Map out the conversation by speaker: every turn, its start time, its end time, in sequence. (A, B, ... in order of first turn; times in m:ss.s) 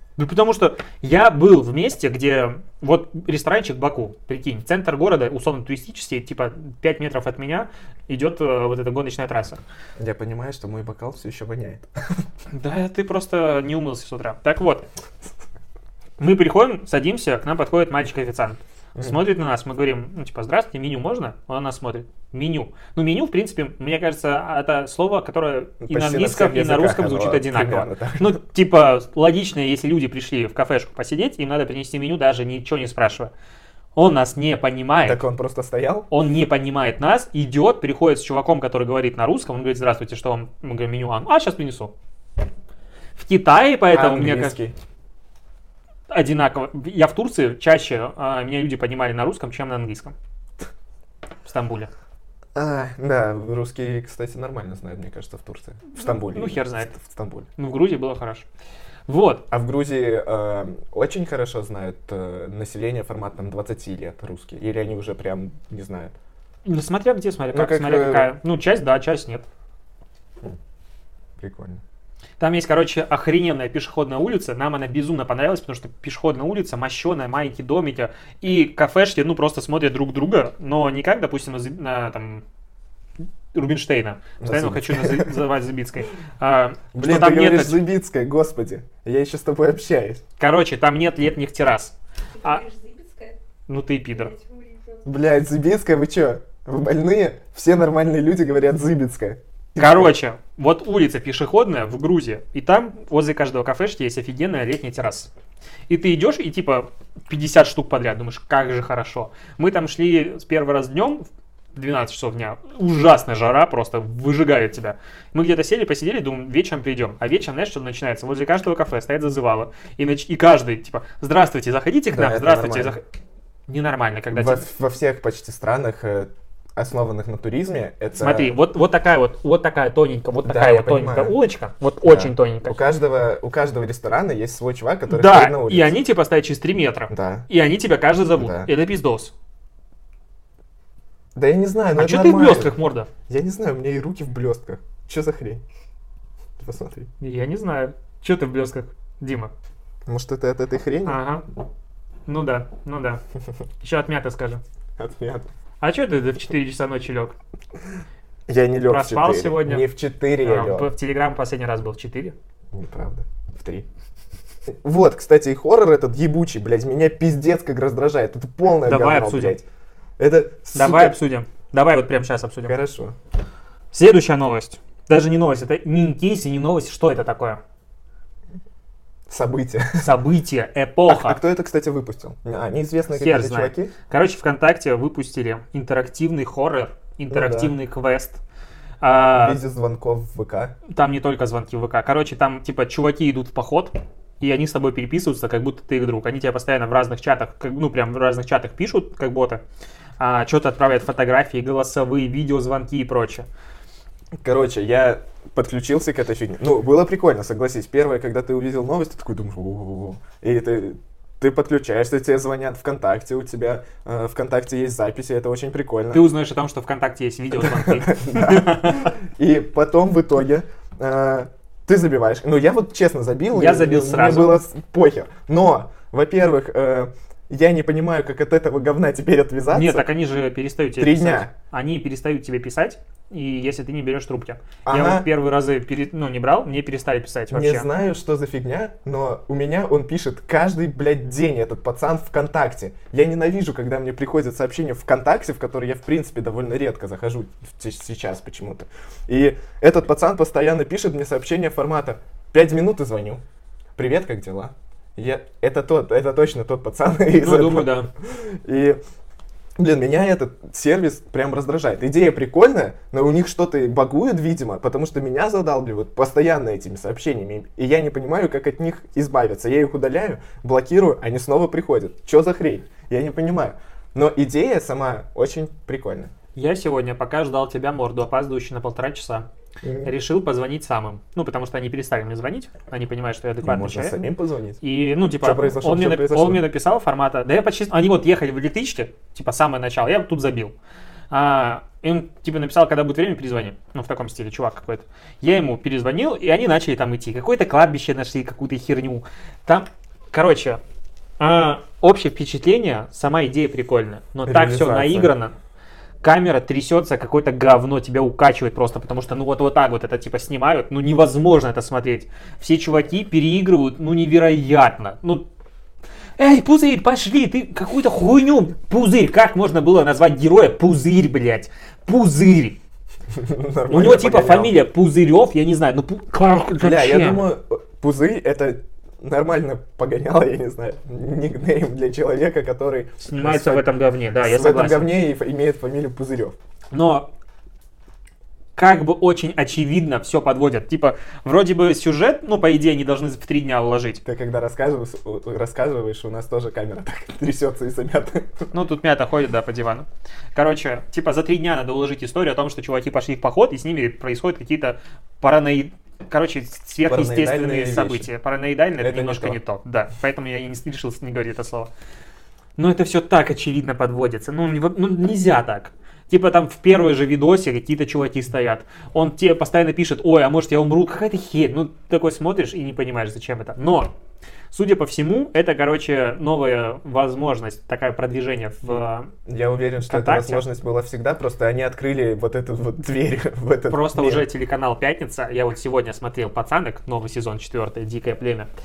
0:00.2-0:09.6 A
0:10.0-0:11.8 B
0:12.5-0:14.8 A
0:16.2-0:33.3 A
0:25.8-0:28.4 B
0:34.0-0:35.2 A
0:35.0-0:36.1 B
0:36.1-0:41.9 A
0:43.2-0:44.6 A
0:43.9-0:44.7 B
0:46.1-0:50.2 A
0:51.4-0:51.9 A
0:52.6-0:57.5 B
0:55.9-0:56.9 A
0:57.6-0:58.5 A
0:59.1-0:59.4 A
0:59.5-1:06.1 B
1:06.6-1:09.5 A
1:07.5-1:08.3 B
1:11.4-1:11.8 B
1:12.4-1:22.4 A
1:23.5-1:27.8 A
1:24.4-1:25.4 B
1:26.9-1:30.2 B
1:30.4-1:32.6 A
1:32.4-1:33.4 C
1:33.7-1:34.3 A
1:34.1-1:35.2 C
1:35.0-1:40.1 B
1:39.8-1:45.3 A
1:45.9-2:03.0 A
2:02.1-2:03.0 B
2:03.7-2:04.6 A
2:04.3-2:08.5 B
2:08.2-2:12.8 A
2:10.4-2:11.4 B
2:12.0-2:16.0 B
2:15.1-2:19.3 A
2:17.1-2:17.5 B
2:18.4-2:18.7 B
2:21.4-2:22.7 B
2:22.0-2:23.1 A
2:23.3-2:25.6 B
2:26.6-2:27.1 B
2:27.2-2:29.5 A
2:30.1-2:31.2 B
2:31.0-2:31.4 A
2:32.3-2:33.2 A
2:33.8-2:34.6 A
2:35.0-2:35.5 B
2:35.8-2:37.4 A
2:38.5-2:40.9 B
2:38.9-2:39.9 A
2:40.4-2:42.4 A
2:42.7-2:43.9 B
2:44.8-2:49.6 B
2:48.8-2:49.6 A
2:50.2-2:51.2 B
2:50.7-2:52.8 A
2:52.6-2:53.2 B
2:53.9-2:57.6 A
2:59.3-3:00.1 B
3:00.0-3:01.4 A
3:01.1-3:03.9 B
3:03.1-3:08.4 A
3:07.3-3:07.8 B
3:09.0-3:09.6 A
3:09.4-3:10.8 B
3:10.9-3:19.6 A
3:20.2-3:23.5 A
3:24.4-3:36.2 B
3:36.1-3:39.1 A
3:37.6-3:50.1 B
3:43.5-3:44.6 A
3:49.7-3:57.9 A
3:51.0-3:51.5 B
3:54.8-3:55.3 B
3:57.5-4:13.4 B
4:14.0-4:19.0 B
4:17.3-4:18.1 A
4:19.8-4:36.3 B
4:36.6-4:39.5 A
4:39.8-4:40.1 B
4:40.0-4:44.2 A
4:43.6-4:44.8 B
4:44.8-4:50.7 A
4:45.4-4:46.7 B
4:51.3-5:00.8 A
5:01.4-5:05.6 A
5:04.4-5:05.3 B
5:06.2-5:15.5 A
5:16.4-5:22.8 A
5:23.4-5:24.8 B
5:23.9-5:27.4 A
5:26.8-5:33.9 B
5:33.2-5:35.1 A
5:34.4-5:36.6 B
5:36.9-5:37.3 A
5:38.8-5:44.2 A
5:44.2-5:48.7 B
5:48.7-6:01.9 A
5:57.0-5:58.3 B
5:59.0-5:59.6 B
6:02.8-6:14.1 A
6:14.7-6:19.3 A
6:19.5-6:24.5 B
6:20.1-6:20.6 A
6:23.9-6:28.7 A